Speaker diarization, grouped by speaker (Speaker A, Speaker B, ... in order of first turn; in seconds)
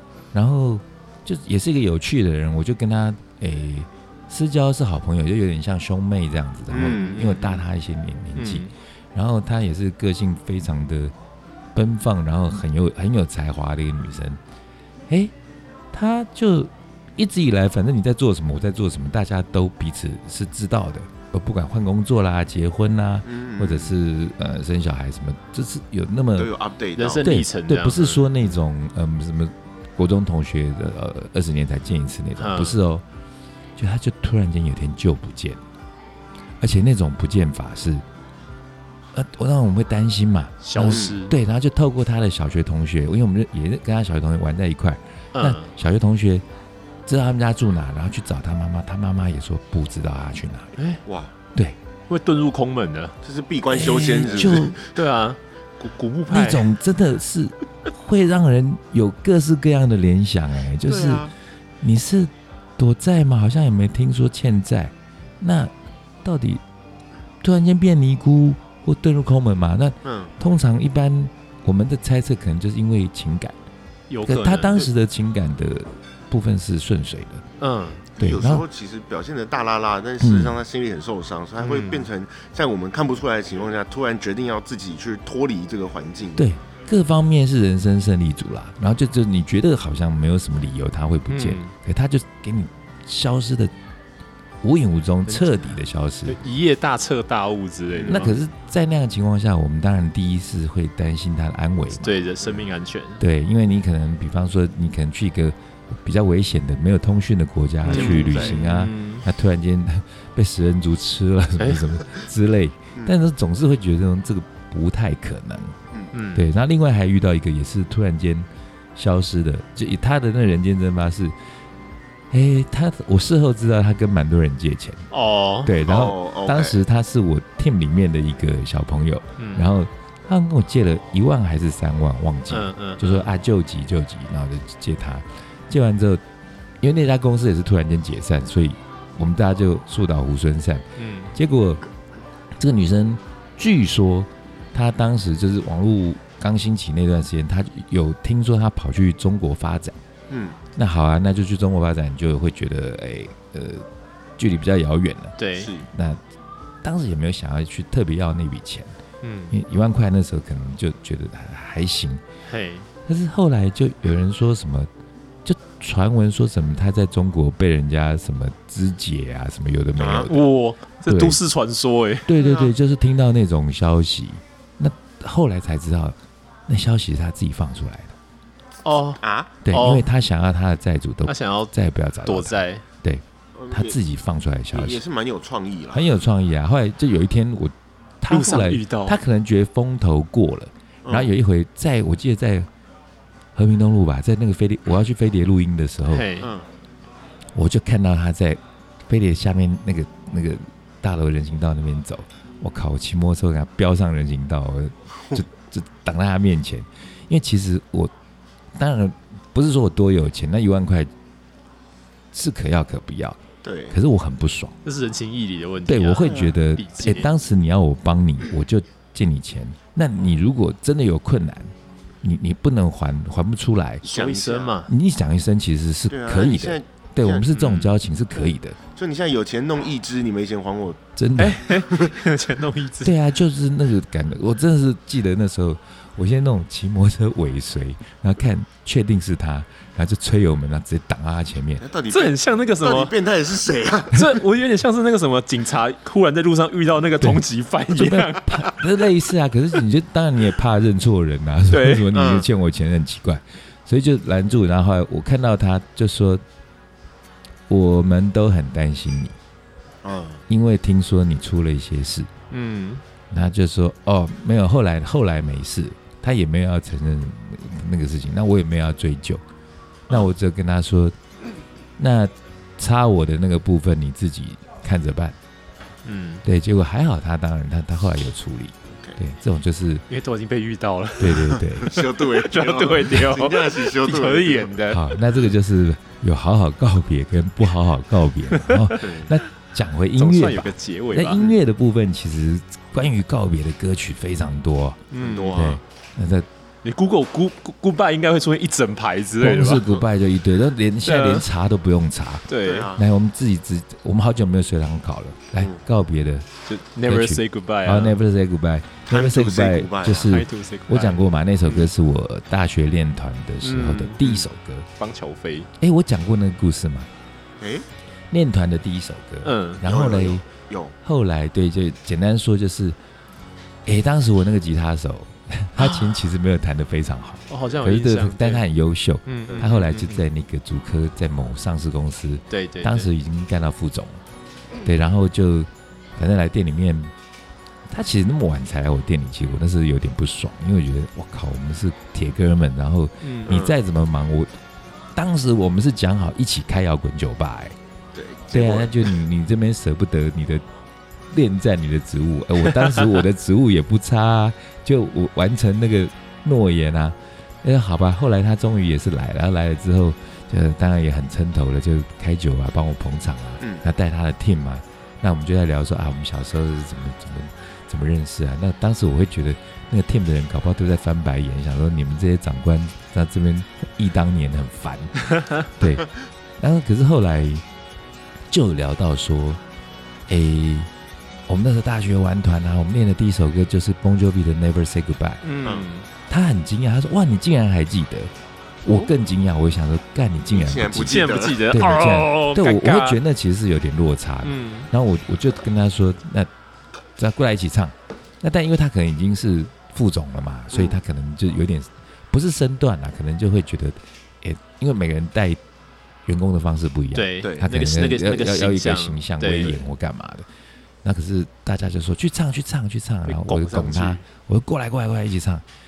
Speaker A: 0.3-11.1, 11.8-14.4, 15.1-15.3, 15.9-26.5, 27.2-33.0, 33.8-35.6, 36.6-38.0, 39.1-46.5, 47.1-50.8, 53.8-54.8, 56.3-61.3, 61.8-65.7, 66.2-66.6, 67.4-73.6, 74.2-77.4, 78.2-78.7, 80.2-80.5, 86.4-93.7, 94.6-96.4, 98.1-102.2, 103.2-115.8, 116.3-121.3, 122.3-125.1, 125.7-136.2, 136.8-141.8, 142.6-150.0, 150.8-153.9, 154.4-156.2, 156.8-159.0, 159.5-162.2, 163.1-164.9, 165.4-170.5, 171.1-171.4, 172.3-178.2, 179.7-185.0, 185.9-192.7, 193.6-196.3, 197.6-208.1, 208.8-211.1, 212.3-213.4, 213.9-214.8, 215.9-224.0, 224.9-228.8, 231.2-231.7, 233.0-241.9, 247.2-256.4, 257.7-259.4, 260.5-262.3, 263.3-269.4, 270.1-271.1, 272.0-275.4, 276.4-280.1, 281.2-281.9, 284.9-296.5, 299.4-306.5, 307.1-314.9, 315.8-317.1, 318.3-320.4, 321.0-323.0, 323.9-334.2, 334.8-337.1, 337.9-344.5, 345.1-347.8, 348.5-350.6, 351.3-377.6, 378.5-379.6, 380.3-380.9, 381.5-385.4, 386.3-388.3, 388.9-396.5, 397.2-405.6, 406.3-410.5, 411.0-415.6
Speaker B: 6.7-7.4, 23.2-23.9, 26.4-27.4, 40.8-41.2, 51.0-51.3, 53.2-54.9, 60.9-61.3, 70.0-70.3, 78.2-86.5, 97.9-98.4, 107.8-108.6, 125.8-126.8, 150.3-150.6, 155.6-155.9, 170.0-170.3, 172.4-172.7, 179.2-179.5, 183.6-184.0, 184.7-186.0, 191.1-191.3, 196.4-196.7, 213.6-214.0, 216.3-216.5, 224.1-224.8, 226.1-227.5, 228.9-231.0, 241.8-244.4, 252.1-252.5, 260.0-260.4, 281.5-284.8, 289.0-289.3, 295.1-295.8, 302.6-303.1, 309.1-310.4, 317.6-317.9, 319.8-320.9, 343.5-343.7, 348.1-349.1, 390.5-391.6, 400.7-401.0, 407.4-407.7, 413.7-414.2
Speaker C: 6.8-7.6, 8.4-8.7, 27.0-28.3, 32.4-32.8, 40.6-41.4, 45.4-45.7, 52.1-53.1, 53.8-56.7, 74.1-74.9, 77.6-78.1, 81.6-82.1, 91.3-91.7, 95.3-95.5, 96.3-98.4, 101.9-103.2, 107.9-109.2, 111.6-111.9, 116.1-116.5, 125.1-125.8, 129.4-129.7, 132.5-133.3, 141.0-141.3, 155.4-155.7, 159.2-159.6, 162.5-162.9, 170.2-172.3, 178.8-180.1, 181.3-181.7, 182.2-182.8, 188.3-189.2, 196.1-196.5, 214.8-217.3, 224.0-224.9, 227.5-228.0, 231.4-233.2, 242.1-243.2, 244.1-248.9, 251.7-252.1, 262.5-263.0, 276.1-276.4, 280.1-285.1, 288.6-289.0, 290.2-291.5, 295.1-295.7, 296.8-299.8, 301.1-301.5, 302.5-302.9, 306.7-308.2, 310.2-311.2, 313.6-314.5, 315.0-315.7, 319.4-319.8, 325.8-326.1, 327.5-328.6, 329.3-330.3, 332.5-333.1, 343.2-343.6, 385.4-386.1, 391.0-393.2, 394.4-394.9, 407.1-409.8, 413.3-414.2